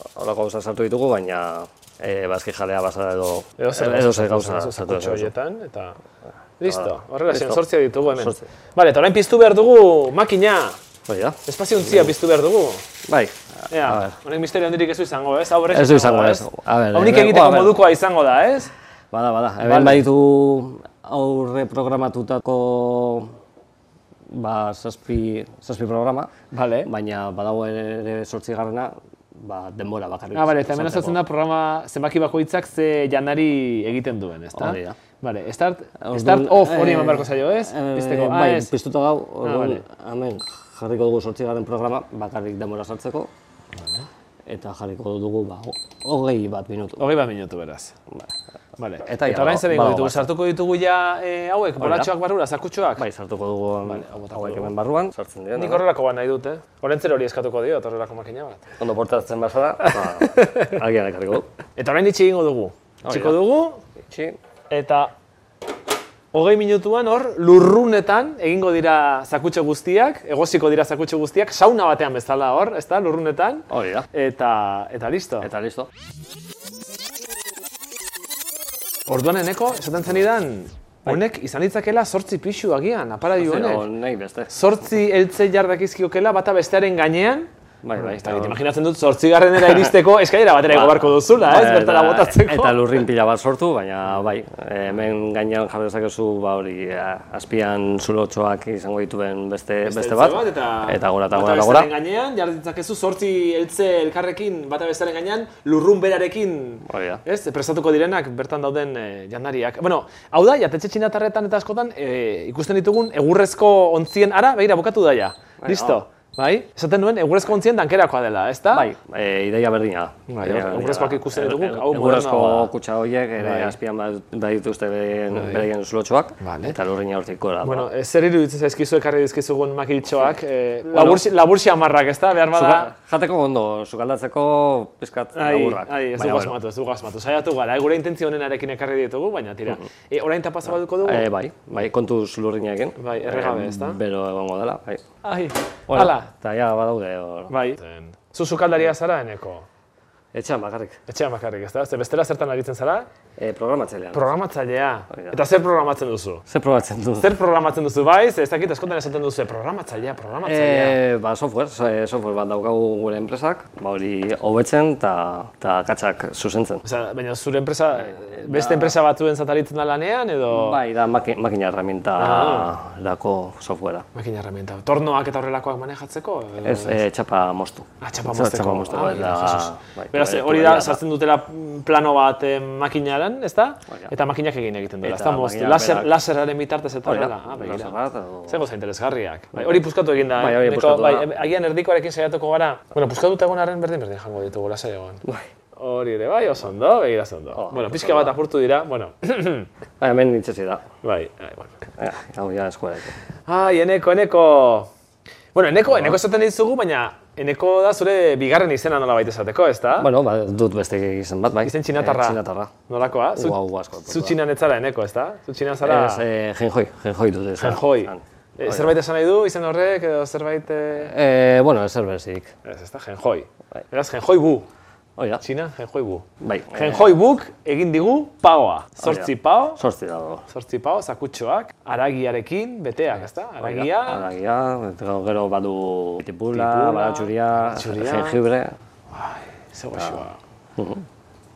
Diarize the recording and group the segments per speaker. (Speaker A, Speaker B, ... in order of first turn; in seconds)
Speaker A: 0.1-5.3, 6.6-8.5, 11.1-12.1, 13.1-14.2, 15.7-17.8, 19.1-23.4, 24.3-26.3, 26.8-31.2, 34.6-35.0, 36.0-43.3, 44.5-47.1, 49.0-50.3, 51.8-52.1, 53.0-55.9, 58.8-61.5, 63.0-63.4, 64.0-64.4, 73.7-74.1, 75.4-75.9, 83.4-84.5, 87.8-88.6, 90.7-101.9, 106.8-107.2, 115.6-116.0, 118.7-127.9, 130.9-131.2, 132.5-136.6, 141.0-145.0, 145.9-147.6, 150.3-151.0, 153.4-154.3, 155.1-155.4, 156.5-157.3, 160.4-166.8, 168.0-169.0, 170.5-174.1, 176.6-181.0, 183.9-184.1, 185.0-186.1, 187.1-188.6, 189.5-189.8, 190.3-191.3, 197.5-198.3, 200.0-200.8, 202.0-203.2, 205.9-206.2, 210.0-212.7, 213.4-214.4, 215.8-218.9, 221.0-222.5, 225.2-225.4, 226.4-227.1, 229.0-230.4, 233.6-238.7, 240.8-241.1
Speaker B: 3.6-6.0, 6.6-10.8, 11.5-12.9, 13.7-18.7, 19.6-20.1, 26.5-26.9, 30.3-38.7, 39.4-39.8, 43.8-44.1, 47.0-48.0, 48.8-53.0, 53.9-54.7, 55.5-58.7, 59.9-60.7, 61.8-63.8, 64.7-65.1, 66.3-75.5, 79.1-83.9, 84.5-93.0, 99.8-118.9, 120.3-122.7, 123.4-123.8, 125.3-125.7, 126.4-126.8, 127.6-132.9, 135.3-141.3, 143.0-144.0, 145.2-146.3, 147.5-149.7, 151.1-153.1, 154.1-156.4, 157.2-161.0, 166.8-170.8, 172.2-172.7, 174.1-177.0, 178.0-188.0, 188.5-195.2, 195.8-199.7, 201.0-201.7, 203.5-204.9, 205.5-210.1, 211.6-216.3, 217.6-221.1, 222.6-224.7, 225.4-229.8, 230.5-234.3, 236.5-238.4, 239.1-240.4